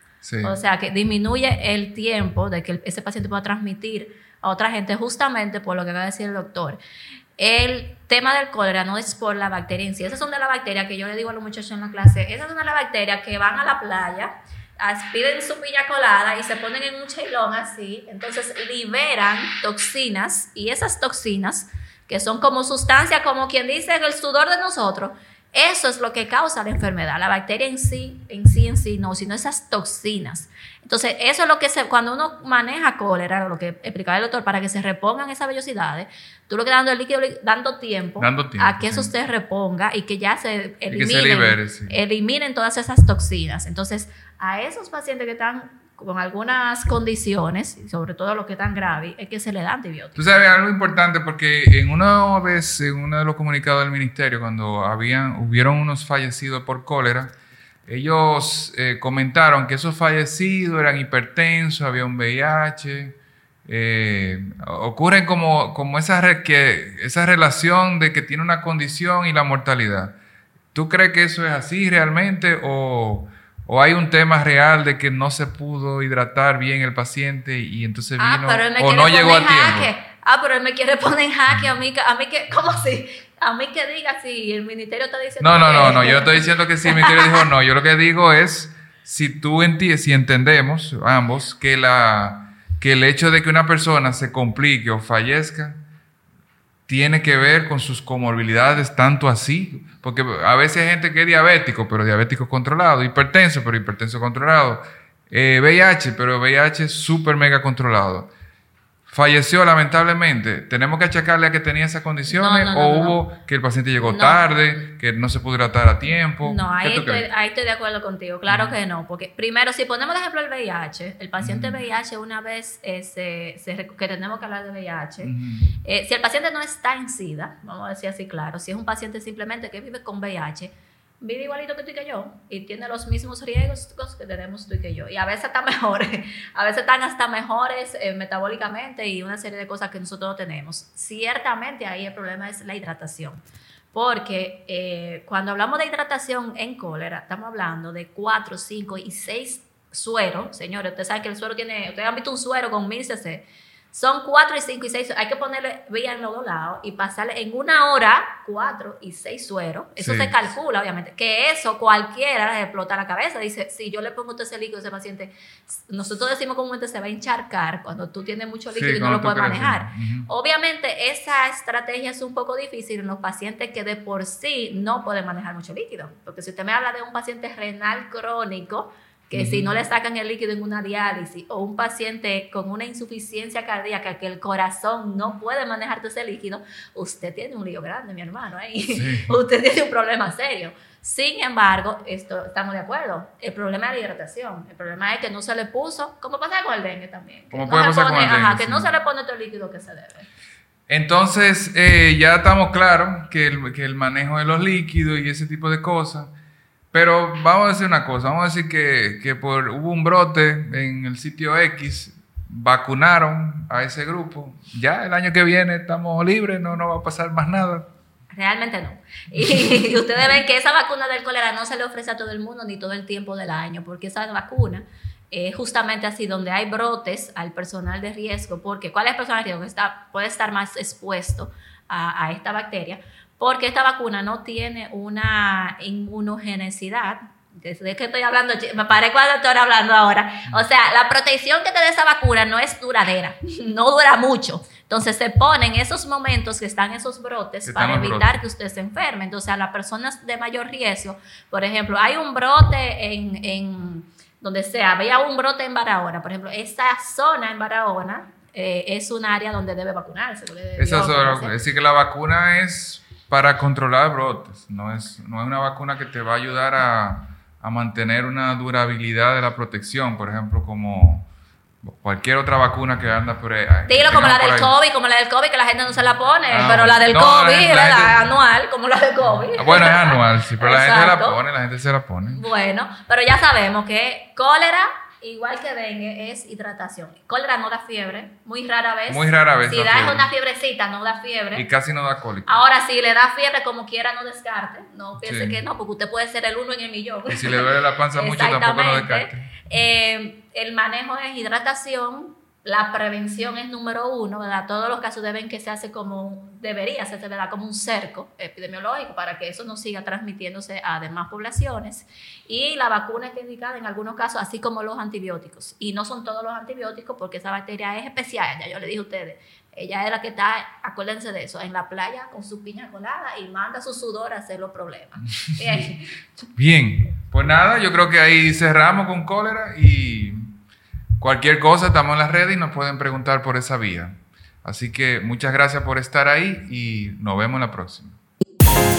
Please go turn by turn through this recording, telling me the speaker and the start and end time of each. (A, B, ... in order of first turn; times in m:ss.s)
0:00.2-0:00.5 A
0:00.4-0:06.8 B
0:07.4-0:50.3 B
0:38.2-0:39.1 A
0:40.9-0:41.9 A
0:50.2-0:57.3 A
0:57.9-1:03.2 A
1:03.7-1:10.1 A
1:10.7-1:19.9 A
1:18.2-1:27.4 B
1:25.4-1:35.8 A
1:36.9-1:48.3 A
1:49.1-1:57.3 A
1:52.3-1:53.2 B
1:54.0-1:54.5 B
1:56.4-2:05.3 B
1:58.5-1:58.8 A
2:01.4-2:01.8 A
2:05.2-2:05.7 A
2:05.8-2:23.4 B
2:23.9-3:20.3 B
2:40.0-2:40.4 A
2:48.7-2:50.3 A
2:59.3-2:59.8 A
3:08.9-3:09.4 A
3:17.5-3:18.9 A
3:20.9-3:26.3 A
3:26.9-3:37.9 A
3:38.3-4:21.6 B
4:07.7-4:08.4 A
4:20.8-4:31.3 A
4:31.8-4:34.7 A
4:33.9-4:41.4 B
4:36.5-4:38.3 A
4:39.5-4:42.4 A
4:42.3-4:51.7 B
4:49.1-4:50.3 A
4:51.5-4:52.5 A
4:52.5-5:26.5 B
4:55.2-4:55.6 A
4:57.3-4:59.5 A
5:26.6-5:30.5 A
5:31.2-5:38.2 A